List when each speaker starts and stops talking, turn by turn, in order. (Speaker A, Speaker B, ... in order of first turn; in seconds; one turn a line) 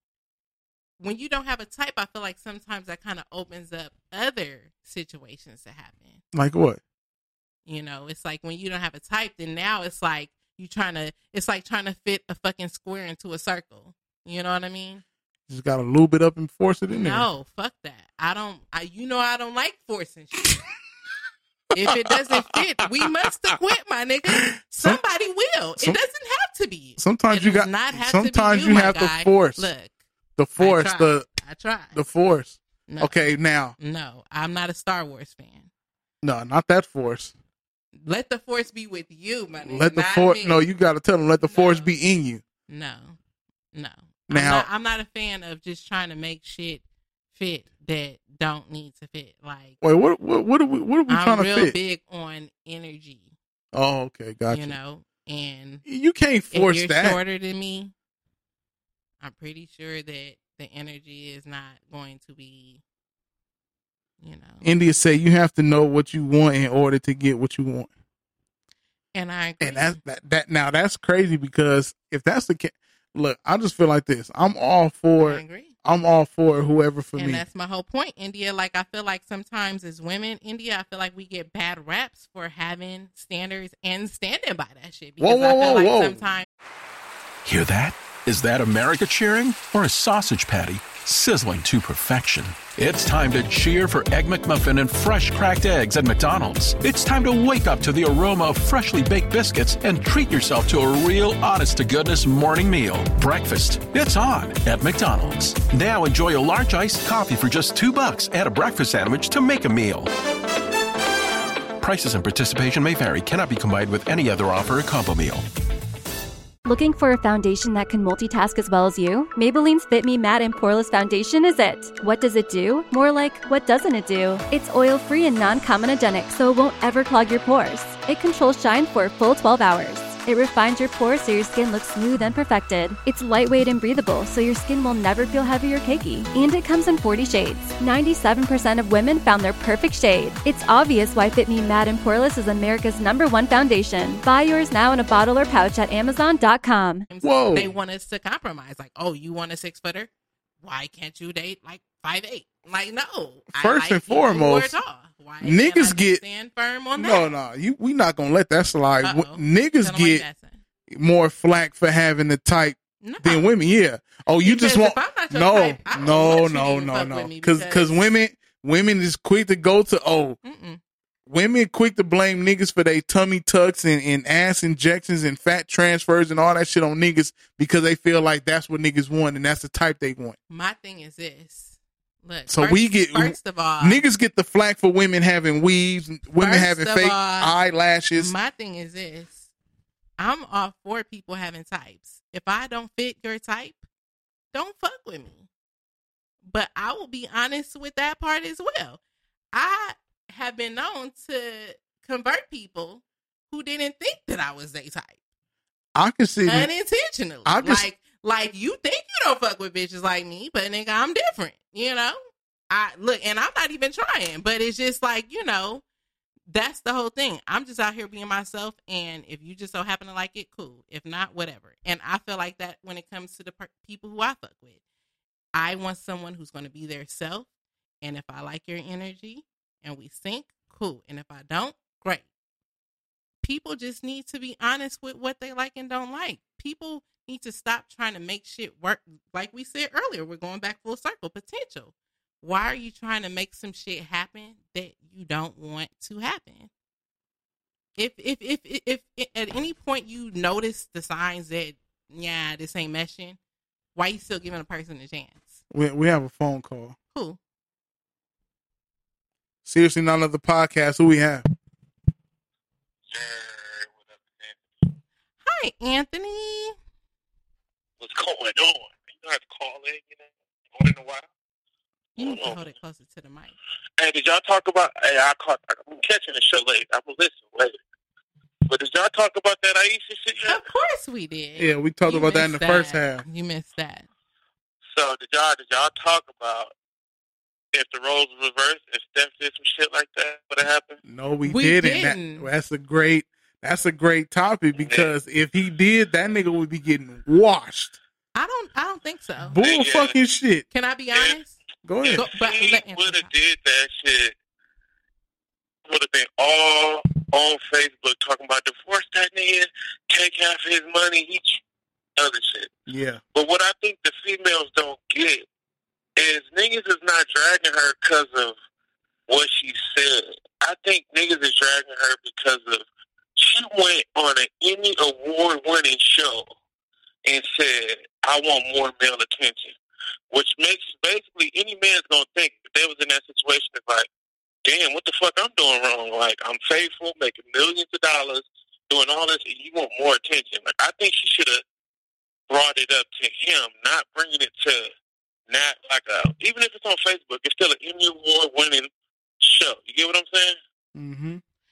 Speaker A: 1.0-6.2
Speaker B: 6.3-6.8
Speaker A: 7.7-15.0
Speaker B: 15.5-17.3
Speaker A: 16.9-20.6
Speaker A: 21.7-29.9
Speaker B: 24.3-25.0
Speaker B: 27.0-29.7
Speaker B: 30.4-31.2
Speaker A: 30.6-32.0
Speaker B: 31.9-33.8
Speaker A: 32.9-35.7
Speaker B: 36.2-37.3
Speaker A: 38.0-40.6
Speaker B: 39.6-42.4
Speaker A: 41.4-42.0
Speaker A: 42.7-43.2
Speaker A: 43.7-49.8
Speaker B: 44.3-44.7
Speaker B: 49.8-51.7
Speaker A: 51.1-53.3
Speaker B: 53.7-54.8
Speaker A: 54.5-55.8
Speaker B: 55.8-57.2
Speaker A: 56.5-57.9
Speaker A: 59.2-62.8
Speaker A: 64.2-64.7
Speaker B: 64.6-67.9
Speaker A: 69.1-70.0
Speaker B: 69.6-77.4
Speaker A: 75.2-75.7
Speaker A: 77.2-86.5
Speaker B: 85.2-86.3
Speaker C: 87.4-110.1
Speaker C: 111.8-115.5
Speaker D: 116.6-147.1
Speaker A: 147.1-150.1
Speaker B: 147.2-147.7
Speaker A: 150.6-157.3
Speaker B: 153.5-154.7
Speaker B: 155.4-156.2
Speaker B: 157.0-160.2
Speaker A: 159.0-160.6
Speaker B: 160.9-170.4
Speaker A: 163.0-163.5
Speaker A: 164.4-168.1
Speaker A: 170.4-170.8
Speaker B: 171.3-180.4
Speaker A: 180.5-184.0
Speaker B: 182.5-188.3
Speaker A: 186.4-187.6
Speaker A: 188.1-189.5
Speaker A: 190.2-193.8
Speaker A: 194.5-195.5
Speaker A: 196.4-199.0
Speaker A: 199.5-205.2
Speaker B: 205.9-206.7
Speaker A: 206.4-215.8
Speaker B: 207.4-207.8
Speaker A: 216.5-224.8
Speaker A: 225.5-227.5
Speaker A: 228.0-232.3
Speaker A: 233.4-246.7
Speaker A: 248.0-253.4
Speaker A: 253.9-255.6
Speaker B: 255.7-256.9
Speaker A: 257.1-257.4
Speaker B: 259.6-261.4
Speaker E: 263.1-264.6
Speaker A: 265.4-266.8
Speaker E: 268.0-271.3
Speaker A: 272.1-273.5
Speaker E: 272.2-272.7
Speaker E: 274.0-277.8
Speaker E: 278.7-280.6
Speaker A: 280.5-284.1
Speaker B: 281.6-283.2
Speaker E: 284.9-286.7
Speaker E: 287.7-291.0
Speaker B: 291.0-298.0
Speaker A: 291.4-292.5
Speaker E: 294.8-295.1
Speaker A: 298.3-299.6
Speaker B: 299.5-300.6
Speaker E: 299.6-300.1
Speaker A: 300.7-301.6
Speaker B: 301.8-302.3
Speaker E: 302.0-304.4
Speaker A: 302.1-303.3
Speaker E: 305.9-311.6
Speaker E: 312.2-312.7
Speaker B: 312.9-313.2
Speaker E: 313.3-315.4
Speaker E: 316.2-318.5
Speaker E: 319.3-322.8
Speaker E: 323.4-326.5
Speaker E: 327.2-329.7
Speaker E: 330.3-334.1
Speaker E: 334.6-341.6
Speaker E: 342.5-344.9
Speaker E: 345.5-348.9
Speaker E: 349.4-350.6
Speaker B: 350.9-351.4